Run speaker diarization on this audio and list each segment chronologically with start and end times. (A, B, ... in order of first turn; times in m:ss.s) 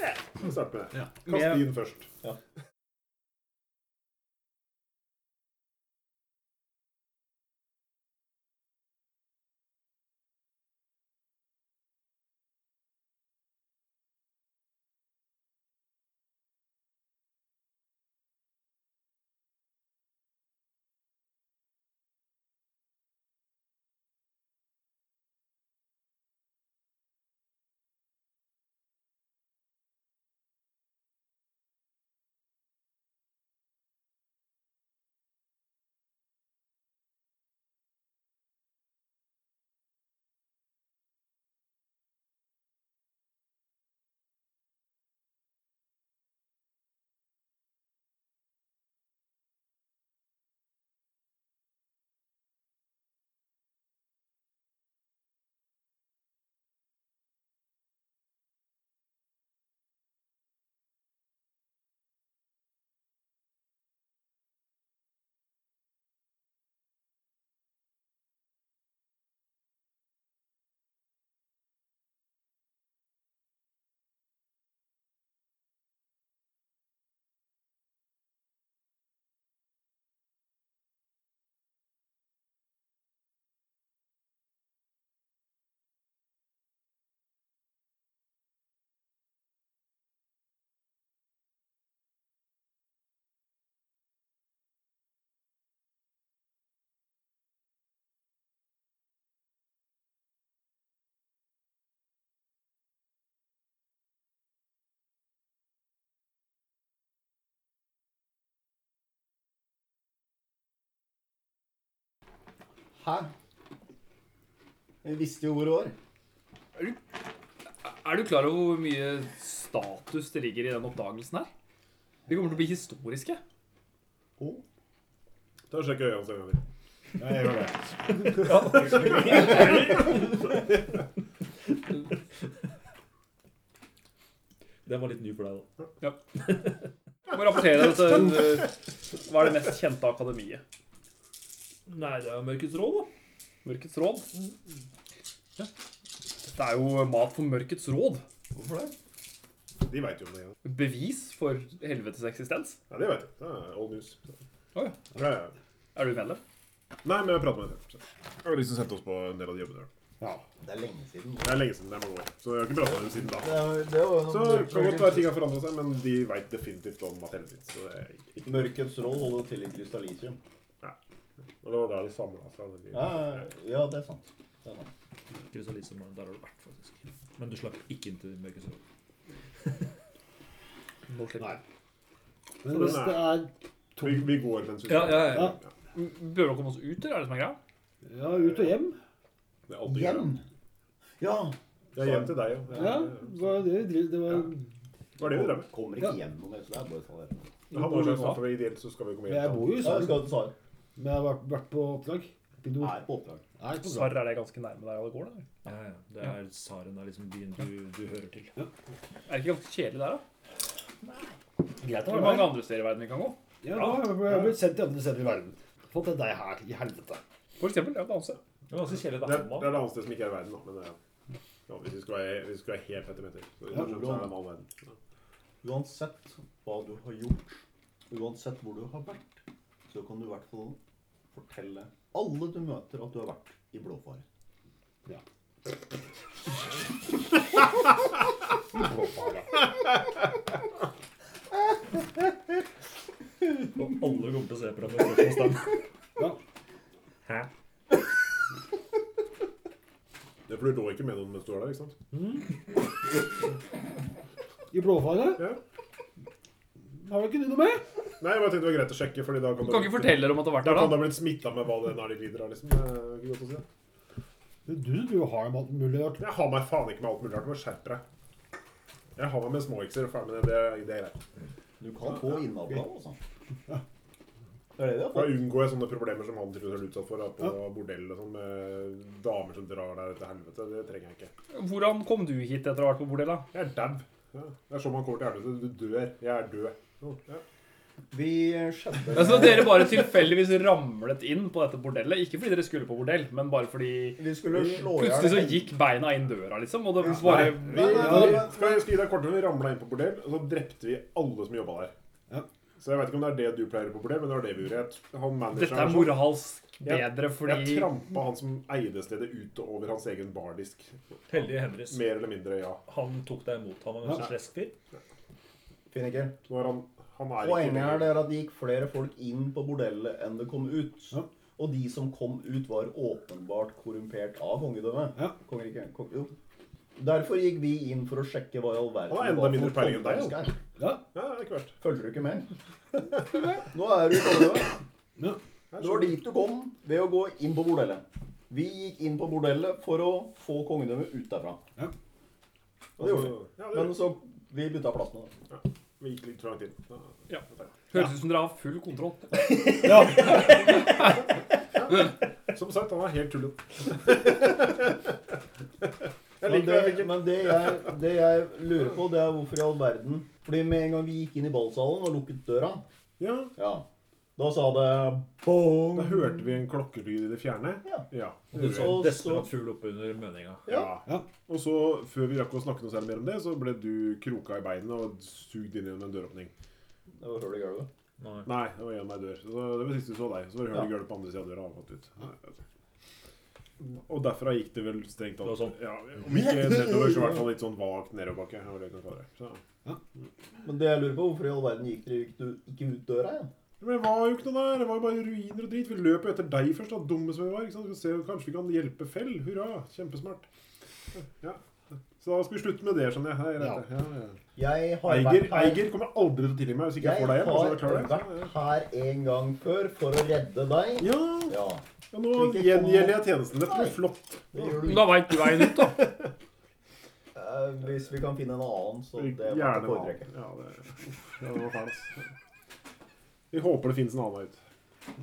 0:00.3-0:02.1 A
1:53.0-1:53.3 B
1:55.0-1:55.9 B
1:57.8-2:01.5 C
2:02.3-2:03.4 C
2:04.4-2:04.6 B
2:05.7-2:06.6 A
2:07.2-2:08.4 D
2:08.2-2:10.5 E
2:14.8-2:15.7 E
2:17.3-2:20.6 C
2:21.9-2:23.1 E
2:23.6-2:24.3 C
2:26.5-2:28.2 C
2:28.5-2:28.9 B
2:29.8-2:30.5 A
2:30.6-2:32.8 C
2:32.9-2:34.3 A
2:34.7-2:35.2 C
2:35.1-2:35.5 A
2:35.9-2:36.4 C
2:37.0-2:39.9 A
2:40.6-2:41.6 B
2:41.4-2:43.7 A
2:43.3-2:45.3 B
2:44.2-2:48.7 A
2:48.4-2:50.4 B
2:51.6-2:53.4 A
2:52.9-2:54.9 B
2:55.5-2:58.8 E
3:01.1-3:01.6 C
3:02.6-3:04.4 D
3:02.7-3:03.3 A
3:04.0-3:05.7 A
3:04.9-3:05.6 E
3:05.2-3:05.5 D
3:05.9-3:07.6 C
3:08.0-3:09.0 D
3:08.2-3:08.7 A
3:09.7-3:10.3 A
3:09.8-3:10.4 B
3:11.2-3:12.4 B
3:11.9-3:13.3 A
3:12.7-3:14.6 D
3:15.2-3:15.7 A
3:15.2-3:17.5 B
3:17.7-3:18.6 E
3:17.7-3:19.9 A
3:19.2-3:20.2 D
3:19.8-3:20.5 B
3:21.0-3:23.0 D
3:22.8-3:23.4 B
3:23.6-3:24.2 D
3:23.8-3:25.4 C
3:25.6-3:28.5 E
3:29.3-3:30.2 C
3:31.8-3:32.5 D
3:32.0-3:33.4 C
3:33.6-3:37.2 D
3:33.7-3:34.2 E
3:37.6-3:38.4 C
3:38.7-3:39.8 E
3:39.1-3:41.0 A
3:41.7-3:44.9 A
3:43.7-3:44.3 B
3:45.6-3:50.8 B
3:51.3-3:54.2 B
3:58.8-3:59.6 D
4:03.5-4:05.8 E
4:10.5-4:12.0 A
4:12.1-4:12.5 D
4:14.7-4:15.5 D
4:17.0-4:17.8 D
4:18.2-4:23.6 A
4:19.6-4:21.2 C
4:24.6-4:26.2 D
4:26.2-4:28.0 A
4:29.2-4:31.2 A
4:31.8-4:33.2 B
4:34.8-4:35.4 B
4:35.1-4:41.3 A
4:41.5-4:43.5 C
4:43.5-4:47.4 A
4:48.1-4:50.0 B
4:49.1-4:54.2 C
4:54.2-4:55.7 B
4:54.8-4:58.3 C
4:57.1-4:58.9 B
4:57.1-5:01.9 A
4:57.8-4:58.5 D
5:02.8-5:12.8 A
5:05.5-5:07.9 C
5:11.3-5:12.1 E
5:12.8-5:14.7 E
5:15.9-5:16.4 B
5:16.4-5:18.1 A
5:17.4-5:26.3 B
5:27.0-5:30.6 B
5:29.1-5:30.4 A
5:30.8-5:31.0 D
5:31.1-5:31.8 A
5:31.8-5:32.5 B
5:33.5-5:34.8 B
5:35.7-5:36.2 A
5:35.8-5:41.6 B
5:43.0-5:45.3 B
5:43.0-5:44.0 A
5:45.5-5:47.6 A
5:47.3-5:49.6 C
5:49.8-5:50.6 D
5:51.8-5:55.1 A
5:56.4-5:57.7 A
5:56.4-6:02.8 B
6:03.2-6:03.5 A
6:03.6-6:03.8 B
6:04.4-6:06.4 B
6:05.9-6:09.0 A
6:07.8-6:09.5 B
6:08.5-6:10.7 E
6:10.6-6:10.9 B
6:10.7-6:16.5 A
6:17.2-6:17.9 B
6:18.2-6:18.5 E
6:18.4-6:22.6 A
6:23.8-6:29.6 A
6:25.4-6:25.8 E
6:26.3-6:27.4 B
6:30.6-6:33.5 B
6:33.8-6:40.5 A
6:41.2-6:41.6 A
6:42.2-6:44.4 A
6:44.6-6:45.9 B
6:45.0-6:48.5 A
6:47.0-6:55.2 B
6:51.0-6:51.6 A
6:52.1-6:56.3 A
6:54.8-6:56.1 C
6:57.3-7:00.3 B
6:59.2-7:02.2 A
7:03.5-7:04.6 A